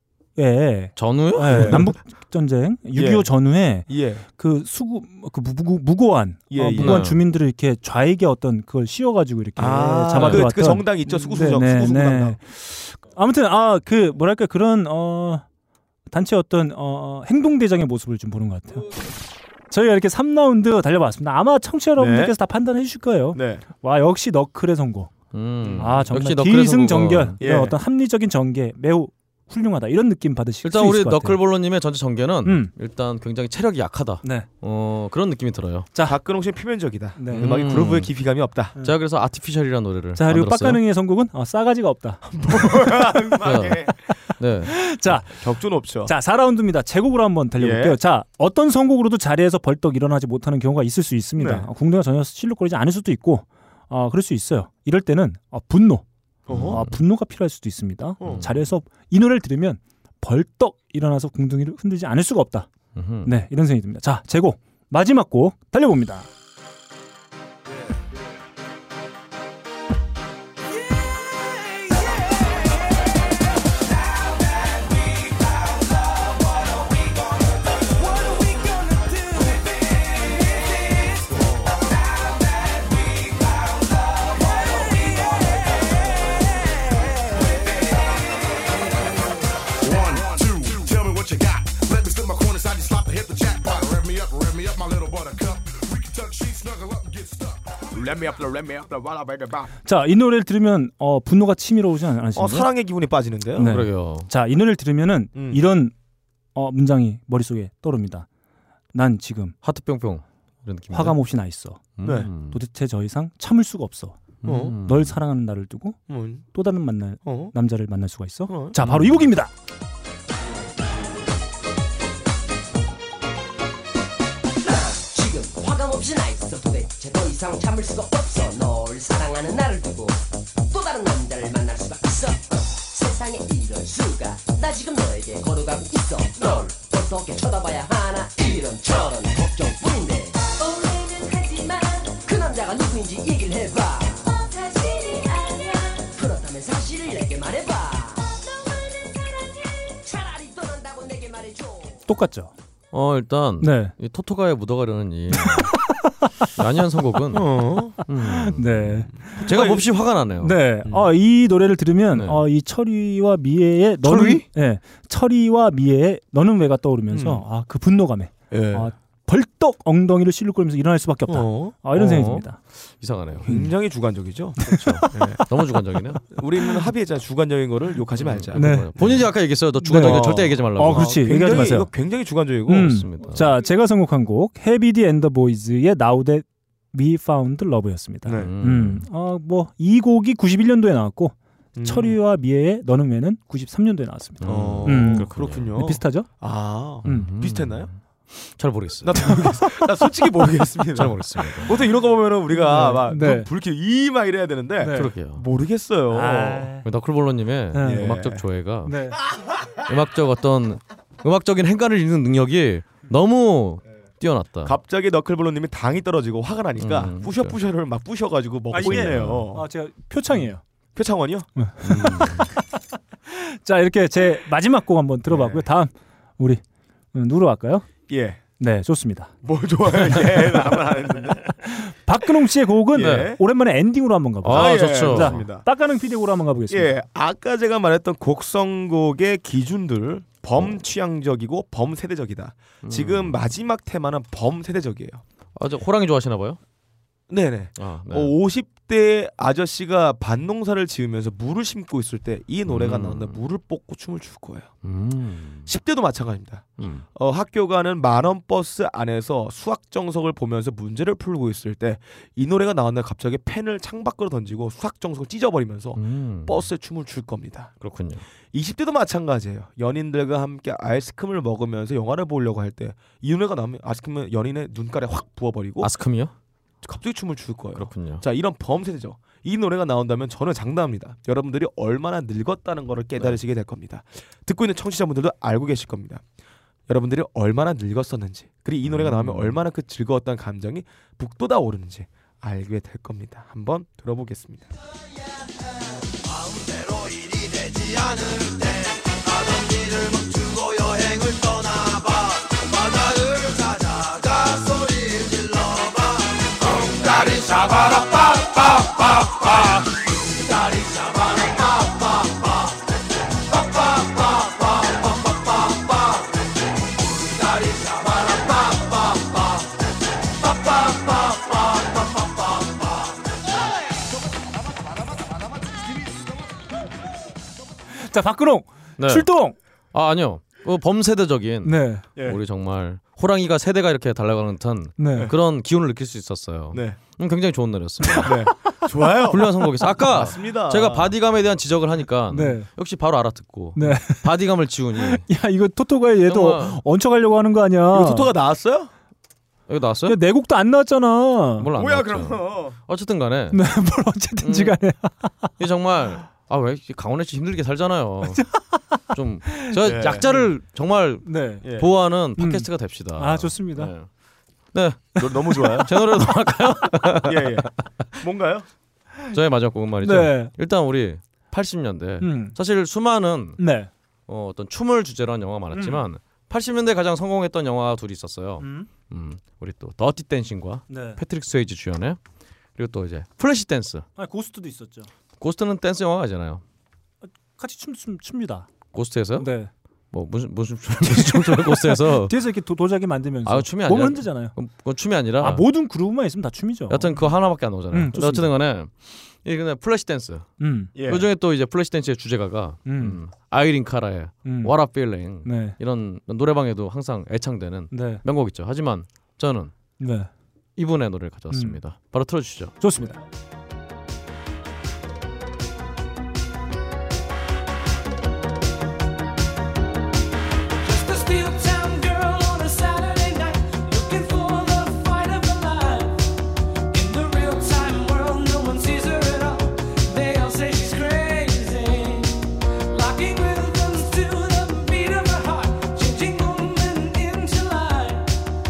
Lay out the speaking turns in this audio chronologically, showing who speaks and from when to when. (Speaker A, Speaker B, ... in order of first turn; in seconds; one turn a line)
Speaker A: 0.4-15.4
Speaker B: 1.0-1.9
Speaker C: 1.5-1.9
Speaker C: 3.0-3.3
Speaker C: 3.9-4.2
Speaker C: 6.5-7.0
Speaker B: 6.8-7.2
Speaker C: 9.6-12.4
Speaker B: 10.1-10.5
Speaker A: 16.1-18.9
Speaker A: 19.7-25.1
Speaker C: 22.0-22.3
Speaker C: 23.3-23.6
Speaker B: 25.3-27.4
Speaker C: 25.6-25.9
Speaker A: 25.8-31.4
Speaker C: 27.4-27.8
Speaker B: 30.6-35.9
Speaker A: 32.5-32.7
Speaker C: 36.0-38.7
Speaker A: 37.2-37.6
Speaker B: 37.3-38.1
Speaker B: 38.8-40.8
Speaker A: 40.2-42.3
Speaker C: 42.3-44.1
Speaker B: 43.4-43.8
Speaker B: 44.4-44.7
Speaker A: 44.8-45.4
Speaker C: 45.3-46.1
Speaker A: 46.0-56.0
Speaker C: 47.6-48.0
Speaker C: 51.4-51.7
Speaker C: 56.5-56.8
Speaker B: 56.5-57.0
Speaker A: 56.6-62.7
Speaker C: 58.2-58.5
Speaker B: 58.2-58.6
Speaker B: 63.0-63.3
Speaker A: 63.2-66.3
Speaker D: 70.8-72.8
Speaker D: 74.1-76.9
Speaker D: 78.0-81.0
Speaker D: 81.9-85.8
Speaker E: 89.8-99.7
Speaker A: 99.8-102.7
Speaker C: 102.4-103.8
Speaker A: 103.6-105.9
Speaker B: 103.7-104.3
Speaker C: 105.3-105.6
Speaker A: 106.5-108.3
Speaker A: 108.9-109.5
Speaker B: 109.6-111.2
Speaker A: 110.9-116.0
Speaker B: 112.0-112.6
Speaker C: 112.0-112.3
Speaker B: 114.4-115.2
Speaker C: 114.4-114.8
Speaker C: 116.1-116.5
Speaker A: 116.5-119.5
Speaker C: 117.2-117.5
Speaker C: 118.5-118.8
Speaker B: 118.8-119.2
Speaker F: 124.6-140.5
Speaker D: 140.7-141.3
Speaker F: 141.4-144.3
Speaker D: 144.4-146.0
Speaker F: 146.1-148.3
Speaker F: 150.0-152.1
Speaker A: 152.1-152.5
Speaker B: 152.9-155.8
Speaker A: 153.6-153.9
Speaker A: 155.4-156.3
Speaker B: 156.6-157.5
Speaker C: 157.3-158.0
Speaker A: 158.0-159.3
Speaker B: 158.1-160.6
Speaker C: 159.1-159.9
Speaker A: 160.4-172.6
Speaker B: 162.1-162.4
Speaker B: 164.0-164.4
Speaker C: 167.1-167.4
Speaker C: 168.5-168.9
Speaker C: 171.3-171.8
Speaker B: 171.9-173.5
Speaker C: 173.4-175.4
Speaker A: 174.6-175.3
Speaker B: 174.7-176.4
Speaker C: 176.3-179.3
Speaker B: 178.2-181.6
Speaker A: 178.6-178.9
Speaker A: 179.8-181.9
Speaker C: 179.8-183.0
Speaker A: 182.7-196.3
Speaker B: 182.8-183.5
Speaker C: 188.2-188.5
Speaker B: 188.3-189.1
Speaker C: 191.8-192.2
Speaker B: 194.4-195.7
Speaker C: 194.4-197.9
Speaker B: 197.1-199.5
Speaker C: 199.0-206.7
Speaker A: 199.3-199.9
Speaker B: 200.9-201.8
Speaker A: 202.5-203.5
Speaker A: 204.8-205.1
Speaker B: 204.9-205.4
Speaker A: 206.1-206.8
Speaker B: 206.8-209.0
Speaker A: 207.7-208.1
Speaker C: 207.8-208.4
Speaker A: 208.9-209.2
Speaker B: 209.8-214.8
Speaker C: 214.6-219.6
Speaker B: 216.8-217.6
Speaker A: 218.7-220.6
Speaker B: 218.8-219.5
Speaker C: 220.9-221.5
Speaker A: 221.6-222.8
Speaker B: 221.8-222.5
Speaker A: 223.3-226.6
Speaker C: 225.3-225.7
Speaker A: 227.1-227.9
Speaker C: 228.1-228.4
Speaker A: 228.6-229.3
Speaker C: 229.4-231.5
Speaker A: 231.6-236.9
Speaker C: 232.9-233.4
Speaker B: 233.0-233.3
Speaker B: 234.4-235.4
Speaker C: 234.5-235.6
Speaker C: 236.7-245.2
Speaker B: 242.8-243.4
Speaker B: 245.6-246.6
Speaker C: 247.3-254.7
Speaker B: 247.8-248.3
Speaker B: 252.7-253.4
Speaker B: 254.8-255.7
Speaker C: 255.7-267.7
Speaker B: 256.8-257.1
Speaker B: 266.0-266.6
Speaker B: 267.8-268.2
Speaker C: 268.5-275.9
Speaker B: 275.8-276.3
Speaker C: 276.8-286.2
Speaker B: 277.8-278.2
Speaker C: 286.9-294.7
Speaker B: 288.9-289.6
Speaker D: 296.9-298.6
Speaker D: 299.4-301.7
Speaker A: 327.9-329.6
Speaker B: 329.0-329.3
Speaker B: 329.9-338.5
Speaker A: 331.6-332.1
Speaker A: 335.0-335.3
Speaker C: 336.7-337.0
Speaker C: 338.2-341.1
Speaker A: 338.2-338.7
Speaker B: 339.3-345.2
Speaker A: 342.3-342.7
Speaker A: 343.8-344.3
Speaker A: 345.0-348.3
Speaker B: 346.3-346.8
Speaker C: 347.9-348.9
Speaker B: 349.7-350.2
Speaker A: 350.1-351.7
Speaker B: 351.6-353.6
Speaker C: 351.8-352.8
Speaker A: 353.5-355.5
Speaker B: 354.4-354.8
Speaker B: 355.6-358.5
Speaker A: 358.3-359.8
Speaker B: 359.1-364.1
Speaker C: 359.8-360.3
Speaker A: 361.2-361.6
Speaker C: 361.6-361.9
Speaker A: 362.4-363.9
Speaker B: 364.7-367.7
Speaker C: 365.2-365.9
Speaker C: 367.2-368.7
Speaker B: 369.3-373.6
Speaker A: 370.0-370.5
Speaker A: 372.2-372.6
Speaker A: 373.6-373.9
Speaker B: 374.3-382.2
Speaker A: 375.7-376.0
Speaker A: 378.6-378.9
Speaker A: 380.9-381.2
Speaker B: 382.8-384.1
Speaker A: 384.2-385.1
Speaker B: 385.4-386.6
Speaker A: 387.6-388.7
Speaker B: 388.9-389.5
Speaker A: 389.4-389.7
Speaker B: 390.1-392.4
Speaker A: 391.0-394.6
Speaker B: 393.5-395.6
Speaker A: 395.4-397.3
Speaker B: 396.9-409.7
Speaker A: 397.9-398.5
Speaker A: 400.6-400.9
Speaker C: 400.9-401.3
Speaker A: 402.9-403.2
Speaker A: 404.4-404.7
Speaker A: 405.4-405.8
Speaker A: 407.9-408.2
Speaker A: 410.0-410.3
Speaker B: 410.8-412.7
Speaker A: 411.5-411.8
Speaker A: 412.8-413.2
Speaker D: 420.8-426.2
Speaker D: 426.9-438.3